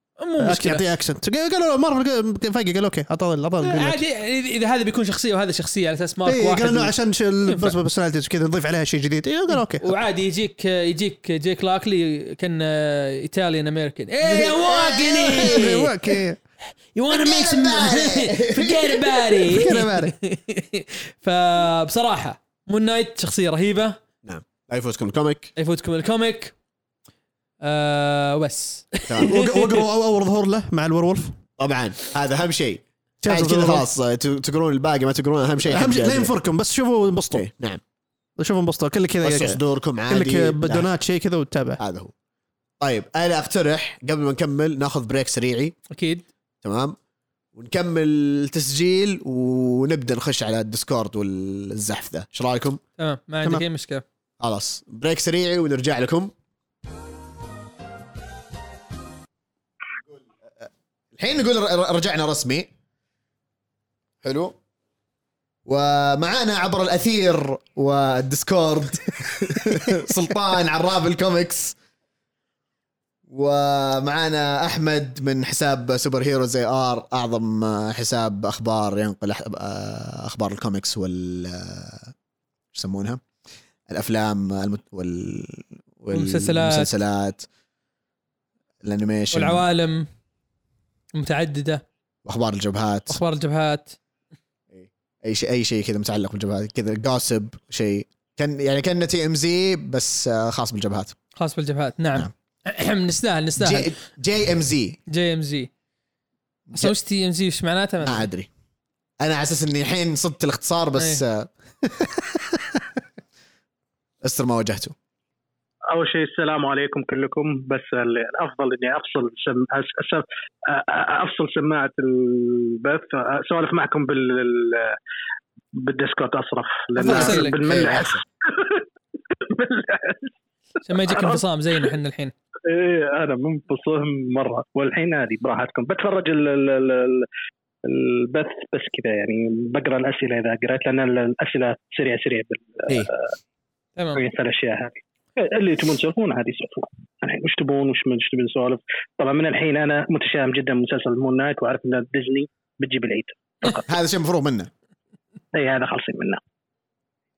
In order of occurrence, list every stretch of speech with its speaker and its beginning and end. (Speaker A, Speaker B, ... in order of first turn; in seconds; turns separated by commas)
Speaker A: 0.2-0.8, Speaker B: 0.4-4.0, Speaker A: 3.6-6.9, Speaker B: 6.2-9.9, Speaker A: 7.5-7.8, Speaker A: 9.7-15.9, Speaker C: 14.2-15.7, Speaker B: 15.3-16.4, Speaker A: 16.9-24.0, Speaker C: 17.1-19.4, Speaker B: 19.5-20.1, Speaker C: 24.2-25.5, Speaker A: 25.6-26.5, Speaker A: 27.6-29.8, Speaker B: 29.2-31.4, Speaker C: 31.6-36.3, Speaker B: 33.2-33.9, Speaker B: 35.6-37.5, Speaker C: 37.3-37.8, Speaker B: 38.4-41.8, Speaker C: 39.2-40.9, Speaker C: 41.8-42.1, Speaker C: 42.8-45.7, Speaker A: 45.9-46.2, Speaker C: 46.6-47.0, Speaker C: 47.5-52.8, Speaker A: 53.0-54.0, Speaker C: 54.4-56.3, Speaker C: 60.1-62.7, Speaker C: 64.2-64.5, Speaker C: 65.7-71.7, Speaker C: 73.3-82.1, Speaker C: 82.7-83.2, Speaker C: 83.9-87.5, Speaker A: 86.1-86.9, Speaker C: 88.8-89.6, Speaker A: 89.3-90.1, Speaker A: 91.1-91.8, Speaker C: 92.2-93.2, Speaker A: 93.1-93.9, Speaker C: 94.7-101.2, Speaker A: 101.4-103.9, Speaker C: 103.6-105.0, Speaker A: 105.1-105.7, Speaker A: 106.7-108.2, Speaker C: 108.0-108.5, Speaker C: 109.2-111.5, Speaker C: 114.2-114.9, Speaker D: 115.9-125.0, Speaker D: 125.8-130.3, Speaker A: 127.0-127.6, Speaker C: 127.0-128.2, Speaker A: 130.8-132.3, Speaker D: 131.1-131.4, Speaker D: 132.7-137.3, Speaker D: 137.8-143.2, Speaker D: 144.1-153.9, Speaker C: 153.8-154.7, Speaker D: 155.5-156.4